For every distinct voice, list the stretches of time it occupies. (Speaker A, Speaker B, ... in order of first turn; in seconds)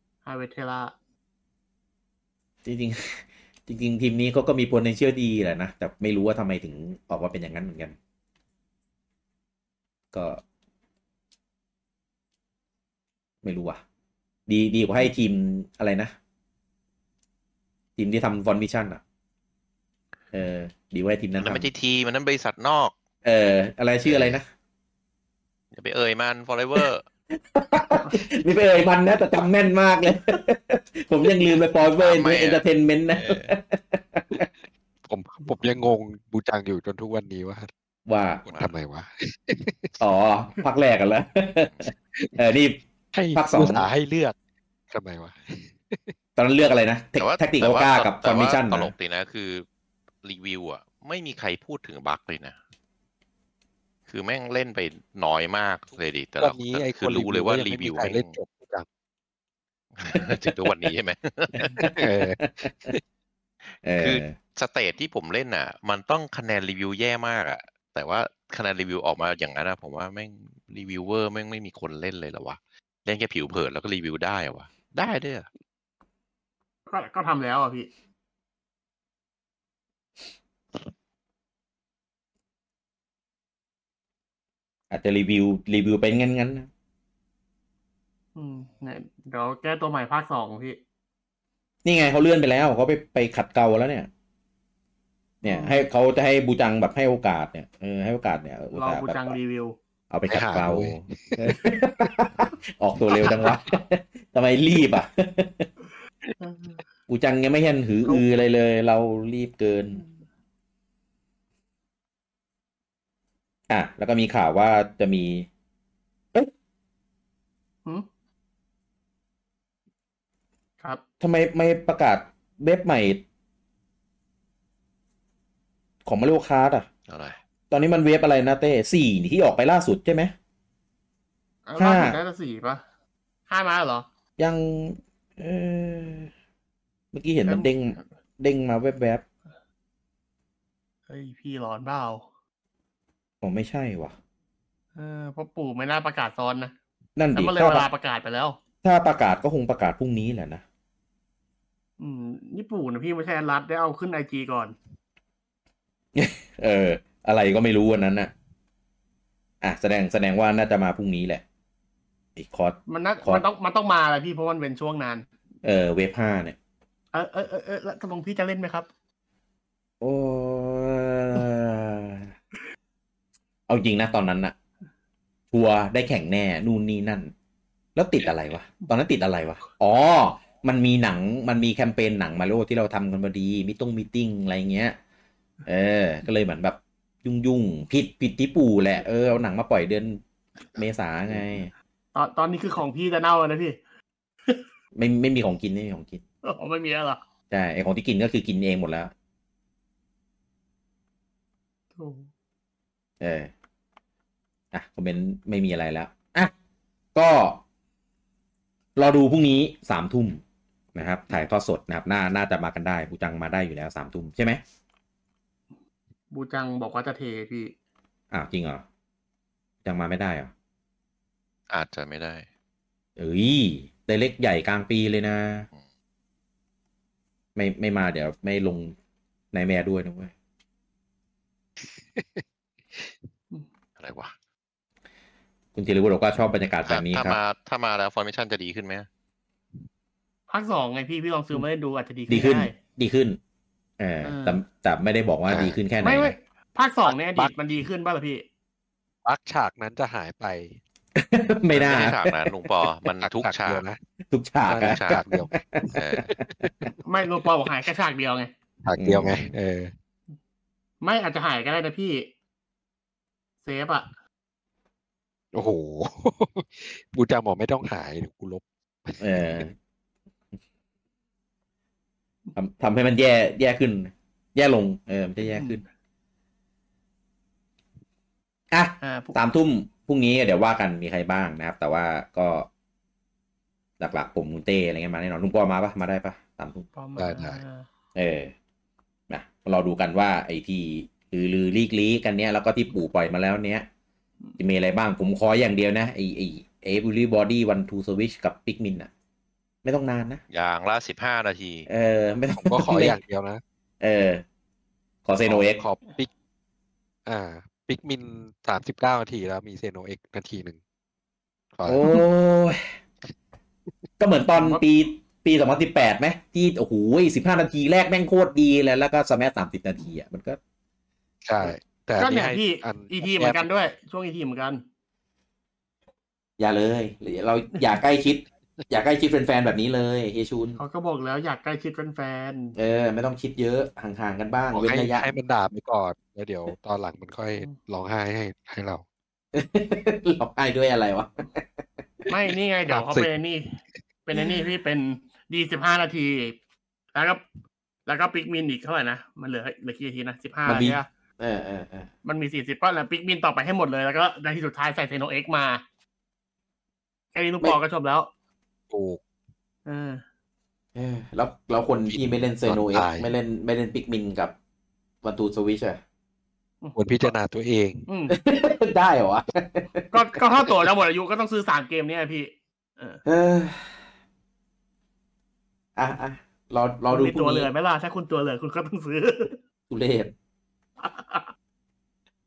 Speaker A: 0.2-0.9, 76.9-77.9, 88.3-90.8, 95.4-95.8, 98.7-99.8, 106.4-106.8, 131.7-132.8, 133.5-134.1, 137.5-138.0, 141.1-142.2, 144.9-146.7, 147.3-148.6, 152.0-154.7, 162.9-165.3, 167.1-168.9, 192.1-193.8, 196.4-197.2, 201.9-202.3, 216.3-217.7, 240.5-242.7, 244.2-244.6, 246.0-248.4, 257.0-258.5, 261.0-262.3, 263.6-264.1, 275.5-275.8, 279.0-279.4, 286.9-287.9, 321.6-324.8, 330.8-332.8, 342.3-346.6, 347.1-347.4, 348.1-351.1, 352.2-355.8, 357.3-358.3, 359.9-360.2, 366.8-367.3, 368.1-368.4, 370.1-373.2, 377.1-379.6, 381.0-381.5
Speaker B: 2.6-7.9, 10.1-10.4, 13.4-13.8, 14.5-16.1, 18.0-19.0, 20.3-21.7, 23.2-24.4, 27.4-34.5, 38.1-38.4, 40.0-42.8, 43.3-43.9, 46.4-48.9, 60.1-60.5, 61.6-63.0, 63.8-64.4, 84.9-86.7, 91.8-94.1, 95.4-99.4, 100.1-105.7, 107.1-110.0, 113.7-115.5, 121.2-123.2, 126.0-126.9, 127.7-130.3, 131.8-132.2, 134.4-136.3, 137.1-139.2, 143.4-144.1, 147.2-147.9, 148.8-150.6, 156.1-158.3, 159.6-161.4, 162.3-163.4, 165.6-166.6, 170.0-172.3, 173.7-174.5, 175.5-177.3, 177.9-185.0, 185.7-190.2, 190.7-191.7, 194.9-196.2, 197.5-199.1, 203.2-203.5, 204.7-206.5, 207.1-207.6, 208.9-210.4, 210.9-214.6, 218.3-218.8, 219.8-220.5, 223.2-225.7, 227.6-228.9, 229.5-230.3, 235.7-237.4, 242.3-243.4, 244.0-246.3, 251.1-252.4, 254.3-256.9, 258.9-259.5, 269.2-269.7, 272.6-275.8, 278.7-282.7, 284.0-286.8, 288.1-288.5, 289.3-293.9, 294.6-299.1, 299.8-300.4, 301.9-303.2, 304.0-304.4, 305.2-305.8, 311.8-312.9, 314.2-320.6, 326.6-330.8, 332.8-335.3, 339.5-341.6, 350.6-352.1, 360.9-364.5, 365.2-366.0, 368.3-370.2, 373.2-374.0, 375.9-377.7, 379.9-380.3
Speaker C: 21.4-22.9, 24.0-24.4, 25.7-27.1, 32.0-32.6, 33.1-33.5, 38.5-38.7, 47.2-49.6, 50.2-52.6, 54.1-58.4, 59.9-61.8, 64.0-75.5, 127.1-127.4, 221.7-222.4, 234.0-234.3, 236.8-239.1, 251.7-253.8, 254.8-255.2, 255.8-256.3, 300.5-301.9
Speaker D: 35.0-37.7, 38.5-40.0, 43.1-44.4, 44.9-46.1, 56.4-58.9, 61.8-63.0, 100.3-101.8, 103.1-103.7, 231.8-233.2, 245.5-245.8, 247.1-247.5, 249.2-250.8, 253.1-254.0, 254.7-256.9, 258.8-259.9, 265.5-269.6, 287.2-287.6, 302.5-303.6, 305.4-306.3, 307.2-310.8, 311.7-312.2, 321.4-323.7, 334.7-339.0, 342.9-343.3, 358.9-359.2, 362.1-363.3, 366.9-368.1